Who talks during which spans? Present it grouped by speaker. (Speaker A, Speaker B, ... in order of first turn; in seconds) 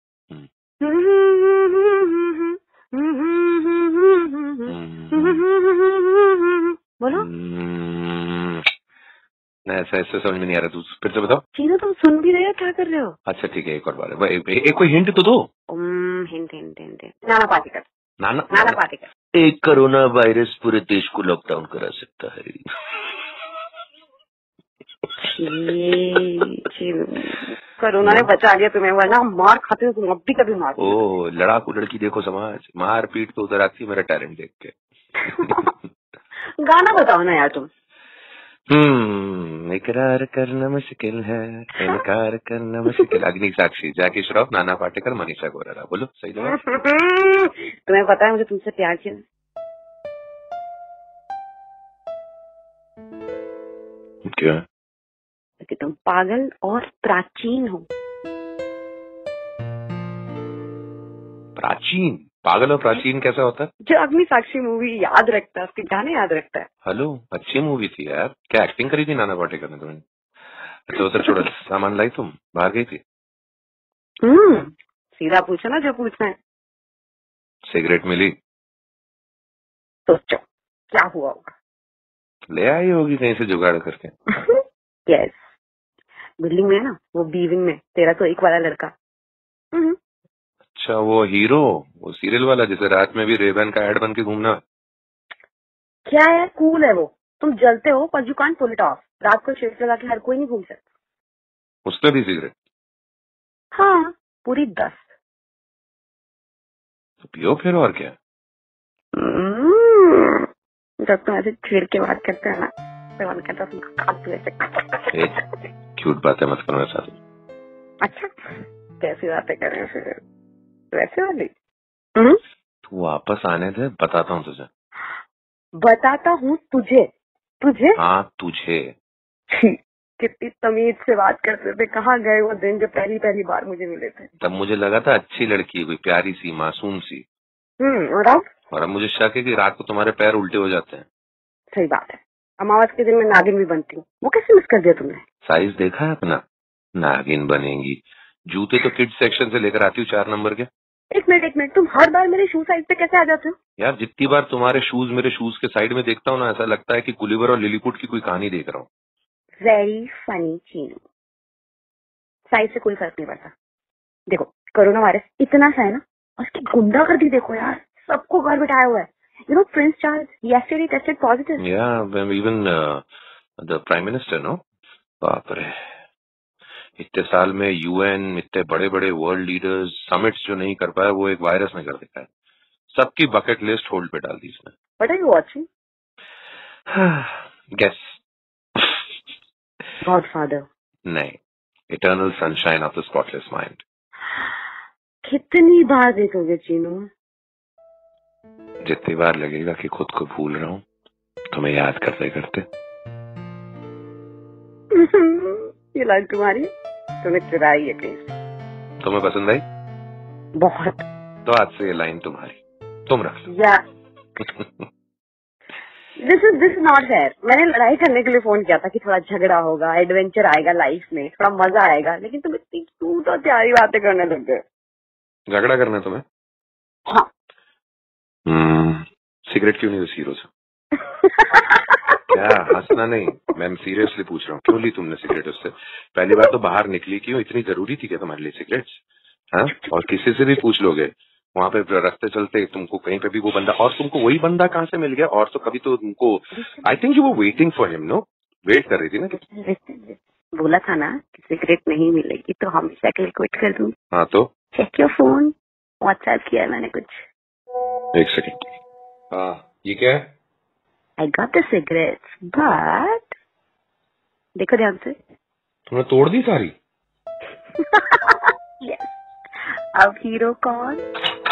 Speaker A: 0.8-7.3, 11.5-13.2, 15.7-17.9, 18.5-19.1, 25.2-31.0, 35.2-35.7, 36.6-37.7, 46.4-49.2, 55.6-57.9, 63.9-66.7, 74.2-76.4, 80.1-80.4, 80.9-81.5, 84.4-85.4, 86.4-88.9, 96.1-100.8, 103.7-105.0, 109.2-110.5, 111.0-115.1, 118.0-118.3, 119.0-120.2, 120.9-121.5, 125.8-127.1, 127.6-128.0, 129.5-134.3, 137.8-138.5, 141.7-145.2, 151.1-153.6, 159.6-161.0, 162.5-163.5, 164.3-171.6, 185.0-185.7, 190.0-190.7, 195.2-197.1, 204.9-206.7, 207.2-208.3, 210.6-211.0, 213.5-213.8, 216.2-224.6, 231.0-232.3, 246.5-246.8, 249.3-253.9, 254.7-257.2, 261.2-263.3, 264.6-265.2, 267.8-269.1, 270.0-271.0
Speaker B: 4.7-5.4, 7.1-8.7, 9.7-11.4, 13.3-15.5, 18.2-18.8, 19.3-22.6, 28.0-28.3, 30.8-34.7, 38.7-46.8, 54.3-54.6, 61.5-63.7, 66.9-70.0, 70.9-73.0, 77.7-78.3, 82.5-84.1, 90.8-94.6, 101.9-102.5, 107.2-108.1, 115.1-115.4, 116.0-117.2, 122.8-124.7, 128.0-128.9, 134.4-137.2, 138.7-141.0, 145.4-146.4, 147.0-148.0, 148.5-150.7, 153.8-158.9, 171.6-173.0, 173.6-174.6, 175.2-175.8, 177.0-182.3, 182.9-184.7, 186.9-188.1, 191.1-191.4, 191.9-193.8, 198.8-200.8, 201.5-202.7, 209.0-209.6, 211.4-213.5, 225.5-226.2, 228.5-230.5, 232.3-239.0, 239.5-249.4, 254.1-254.5, 258.1-258.6, 259.3-260.2, 265.9-266.7